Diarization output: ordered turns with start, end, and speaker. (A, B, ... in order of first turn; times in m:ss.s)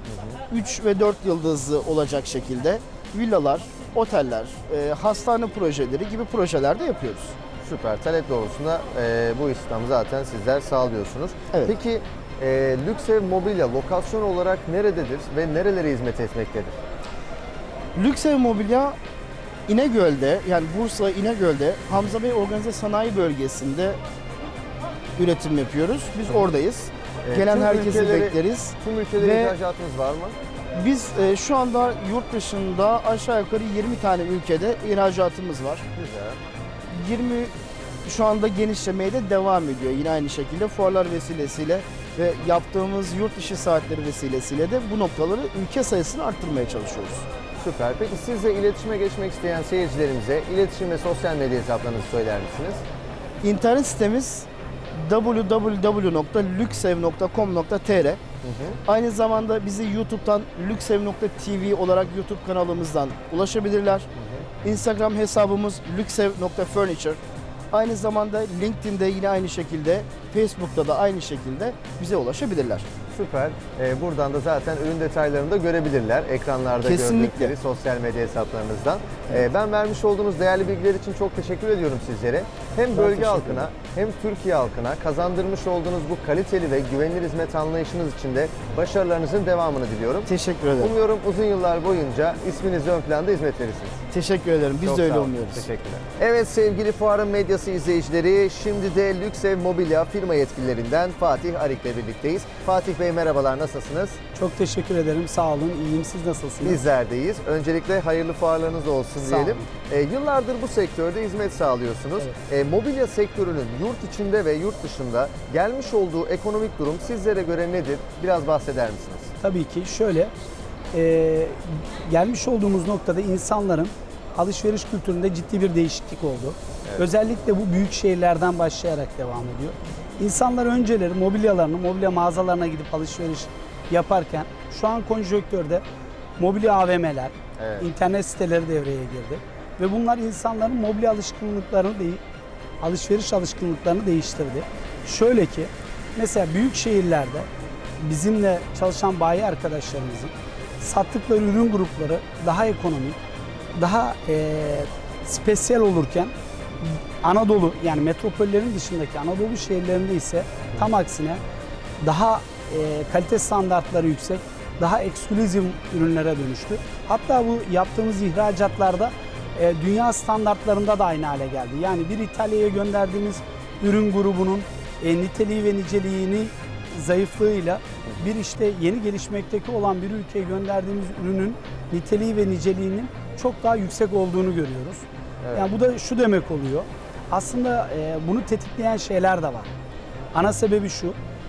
0:00.5-0:07.4 A
0:07.6-0:16.7 B
0:18.0-0:19.0 A
0:19.7-0:24.0 A
0:25.2-0:29.6 A
0:27.2-0:30.4 B
0:30.7-0:35.8 A
0:36.0-0:36.4 B
0:36.9-0:37.5 A
0:38.0-0:47.2 A
0:47.6-0:52.8 B
0:53.4-0:58.2 A
0:58.4-0:58.8 B
0:58.8-1:04.1 A
1:04.6-1:07.2 A
1:07.7-1:12.9 A
1:13.1-1:30.3 B
1:16.8-1:17.5 A
1:22.9-1:23.7 A
1:30.2-1:31.0 A
1:30.8-1:34.0 B
1:34.1-1:35.6 A
1:34.8-1:44.2 B
1:44.3-1:46.8 C
1:46.6-1:59.3 B
1:49.2-1:49.7 C
1:59.4-2:00.3 C
2:00.9-2:15.8 C
2:16.4-2:22.2 C
2:17.6-2:17.9 B
2:22.8-2:27.5 C
2:28.0-2:33.2 C
2:33.8-2:41.4 C
2:42.0-3:09.7 C
3:05.4-3:05.7 B
3:10.3-3:11.2 C